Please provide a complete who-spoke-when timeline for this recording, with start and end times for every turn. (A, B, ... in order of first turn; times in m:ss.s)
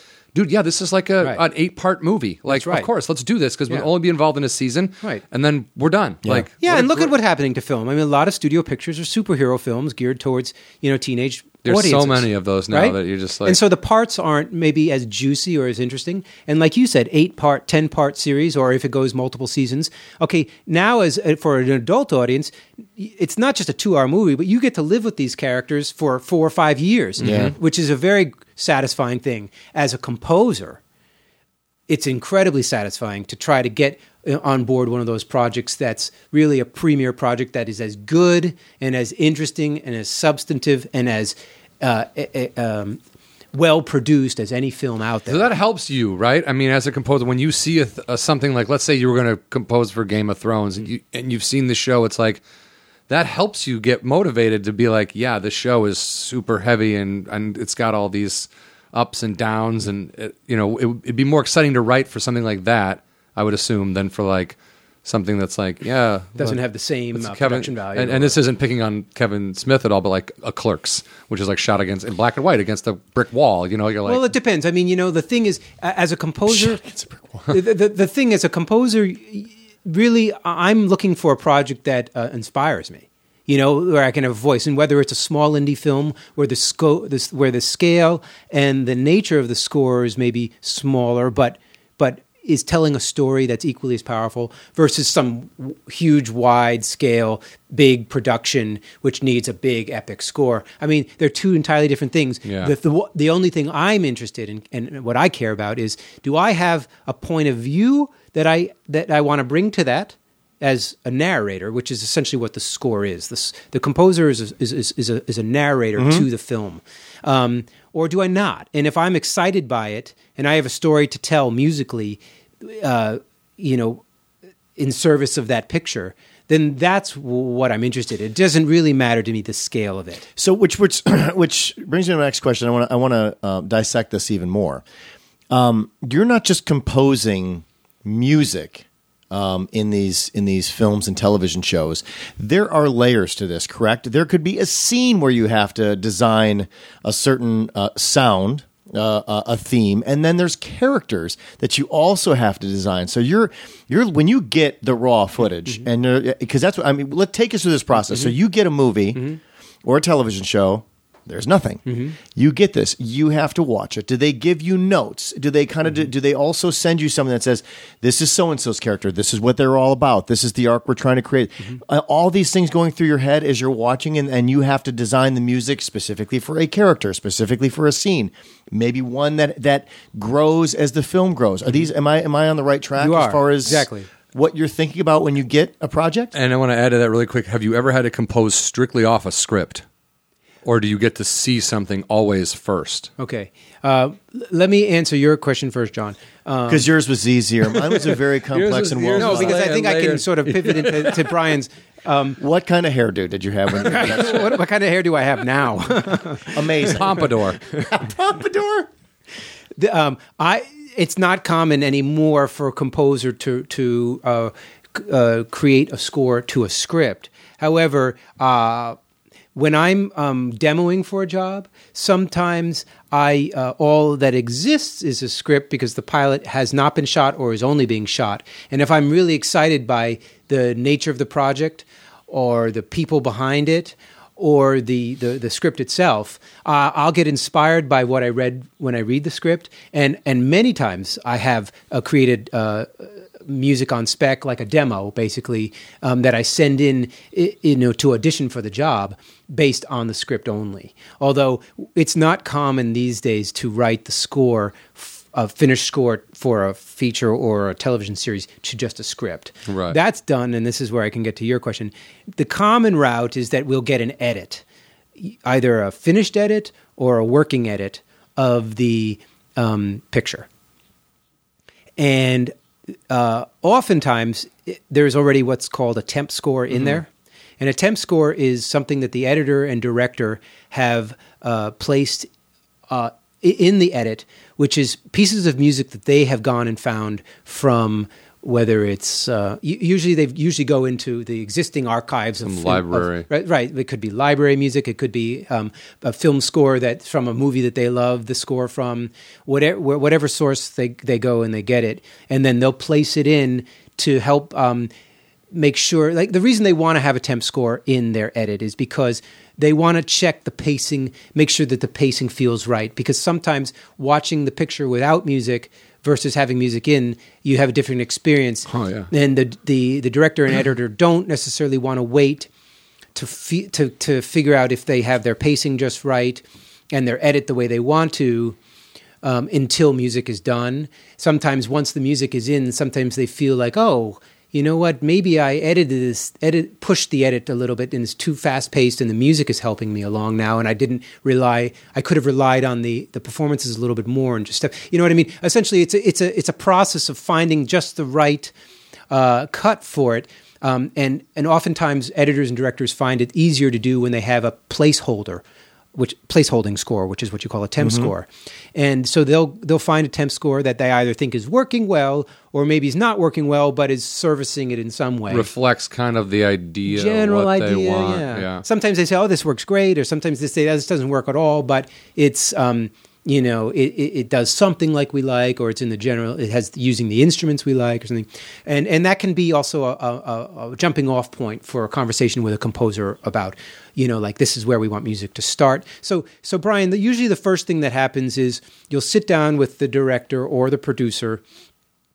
0:00.3-0:07.1 A
0:02.5-0:02.9 B
0:06.6-0:30.8 B
0:11.6-0:13.6 A
0:27.2-0:27.5 A
0:27.2-0:27.5 C
0:31.9-0:43.0 B
0:43.5-0:45.5 B
0:45.3-0:52.4 A
0:53.1-1:06.6 A
1:06.4-1:08.4 B
1:07.1-1:14.3 A
1:14.0-1:16.8 B
1:16.5-1:17.4 C
1:17.5-2:04.0 B
1:42.4-1:42.7 A
1:56.0-1:56.3 C
2:04.8-2:10.3 B
2:10.4-2:14.8 C
2:15.5-2:39.3 C
2:39.8-3:06.3 C
2:41.9-2:42.2 B
3:03.0-3:04.1 B
3:06.3-3:09.8 A
3:10.6-3:13.1 A
3:13.2-3:16.9 B
3:16.7-3:19.6 C
3:18.5-3:21.4 A
3:19.2-3:22.4 B
3:22.4-3:24.5 C
3:23.8-3:27.0 B
3:26.5-3:28.9 C
3:26.9-3:27.6 A
3:29.8-3:39.0 B
3:39.6-4:24.6 B
4:19.7-4:20.0 A
4:25.2-4:30.5 B
4:32.0-4:32.5 B
4:33.1-4:37.1 B
4:37.6-4:42.3 B
4:42.9-5:04.9 B
4:52.4-4:53.3 A
5:05.5-5:22.5 B
5:18.7-5:19.1 A
5:23.2-5:28.6 B
5:29.2-5:48.5 B
5:49.1-5:55.4 B
5:56.0-6:05.5 B
5:57.8-5:58.1 C
6:05.3-6:08.6 A
6:06.9-6:31.4 B